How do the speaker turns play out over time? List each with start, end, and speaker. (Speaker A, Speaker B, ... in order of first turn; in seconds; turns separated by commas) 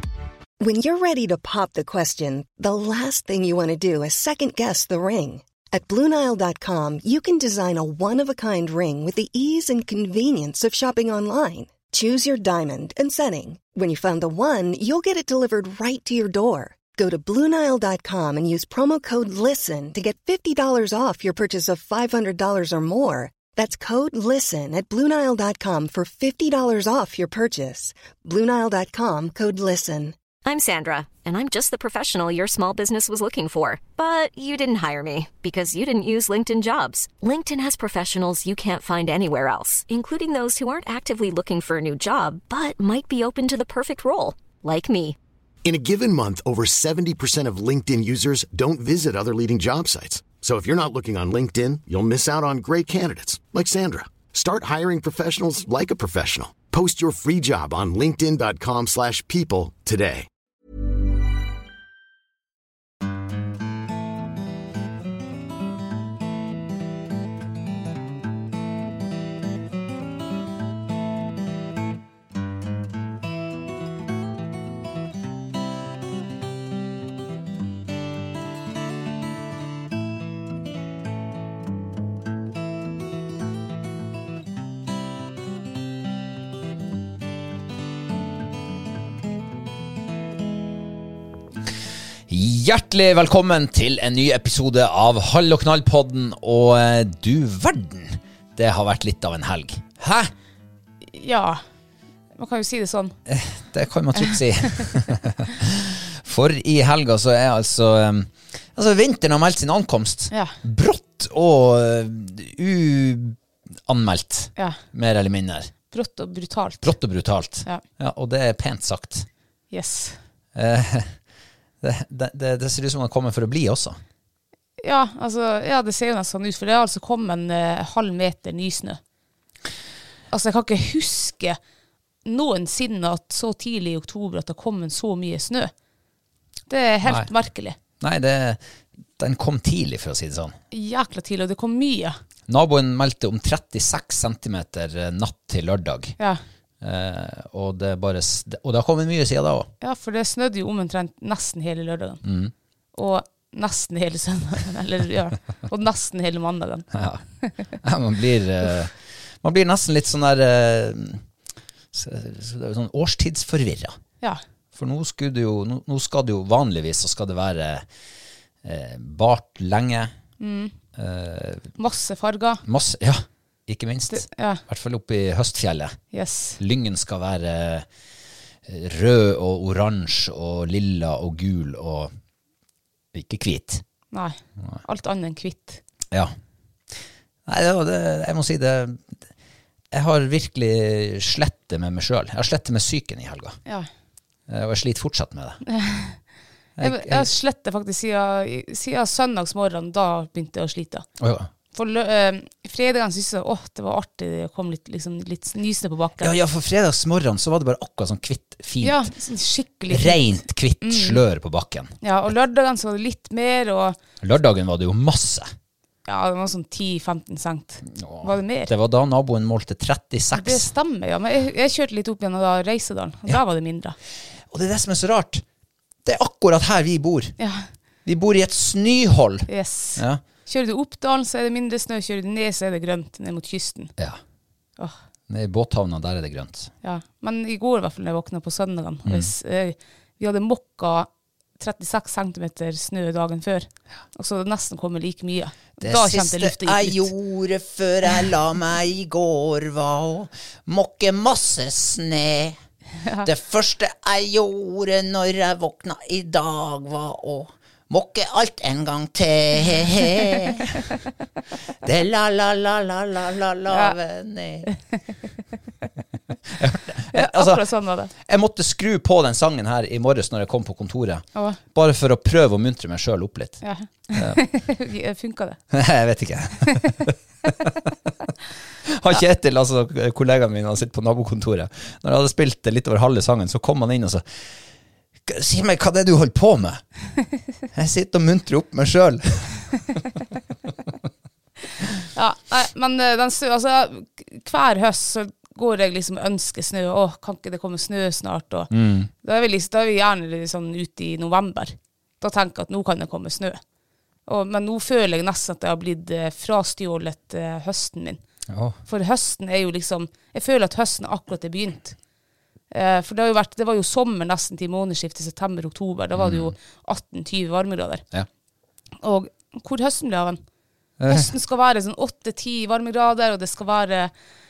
Speaker A: 0.6-30.2, Speaker B: 30.4-45.2, Speaker C: 45.6-60.3, Speaker D: 92.3-100.3, Speaker E: 101.0-101.6, Speaker E: 102.3-103.2, Speaker D: 103.3-115.7, Speaker E: 110.3-110.6, Speaker E: 115.9-116.9, Speaker D: 116.8-119.3, Speaker E: 119.7-120.2, Speaker D: 120.5-121.2, Speaker D: 121.8-124.0, Speaker E: 124.8-129.0, Speaker E: 130.3-131.6, Speaker E: 132.2-135.7, Speaker E: 136.7-137.8, Speaker D: 137.0-138.6, Speaker D: 139.2-140.6, Speaker E: 140.7-142.2, Speaker D: 142.5-146.2, Speaker D: 146.8-149.7, Speaker E: 149.8-152.2, Speaker D: 152.2-152.5, Speaker E: 152.9-156.9, Speaker D: 156.9-161.2, Speaker D: 161.9-164.0, Speaker D: 164.7-167.9, Speaker D: 168.6-170.1, Speaker E: 170.4-170.8, Speaker D: 170.9-171.8, Speaker E: 171.8-172.6, Speaker D: 172.6-176.0, Speaker E: 174.1-174.6, Speaker E: 176.1-176.6, Speaker D: 176.6-177.9, Speaker D: 178.7-182.1, Speaker D: 183.1-183.8, Speaker E: 184.1-185.8, Speaker D: 186.9-189.2, Speaker D: 189.9-193.6, Speaker D: 194.5-195.6, Speaker E: 195.7-196.2, Speaker D: 196.8-197.3, Speaker E: 196.8-201.1, Speaker D: 201.2-201.5, Speaker E: 201.7-206.3, Speaker D: 206.2-209.1, Speaker E: 208.8-211.2, Speaker D: 209.9-212.0, Speaker E: 212.0-214.0, Speaker D: 214.2-215.5, Speaker E: 216.1-218.7, Speaker D: 217.8-220.7, Speaker E: 220.3-224.0, Speaker D: 224.5-225.4, Speaker D: 226.0-227.4, Speaker E: 227.4-227.7, Speaker D: 228.1-230.2, Speaker E: 229.5-233.9, Speaker D: 235.3-236.7, Speaker E: 236.8-247.1, Speaker D: 239.1-239.3, Speaker D: 245.8-252.6, Speaker E: 253.0-253.3, Speaker D: 253.2-260.8, Speaker D: 261.8-264.7, Speaker E: 263.7-263.9, Speaker D: 266.5-274.4, Speaker E: 267.1-268.1, Speaker E: 273.6-275.6, Speaker D: 275.7-277.9, Speaker D: 278.8-284.6, Speaker D: 285.2-286.9, Speaker D: 287.7-289.8, Speaker E: 292.1-298.7, Speaker D: 298.7-299.1, Speaker E: 299.2-303.6, Speaker E: 304.2-308.2, Speaker D: 308.5-308.8, Speaker E: 308.9-312.0, Speaker E: 312.7-318.1, Speaker D: 316.1-316.5, Speaker E: 319.0-320.4, Speaker D: 321.0-321.3, Speaker E: 321.1-324.1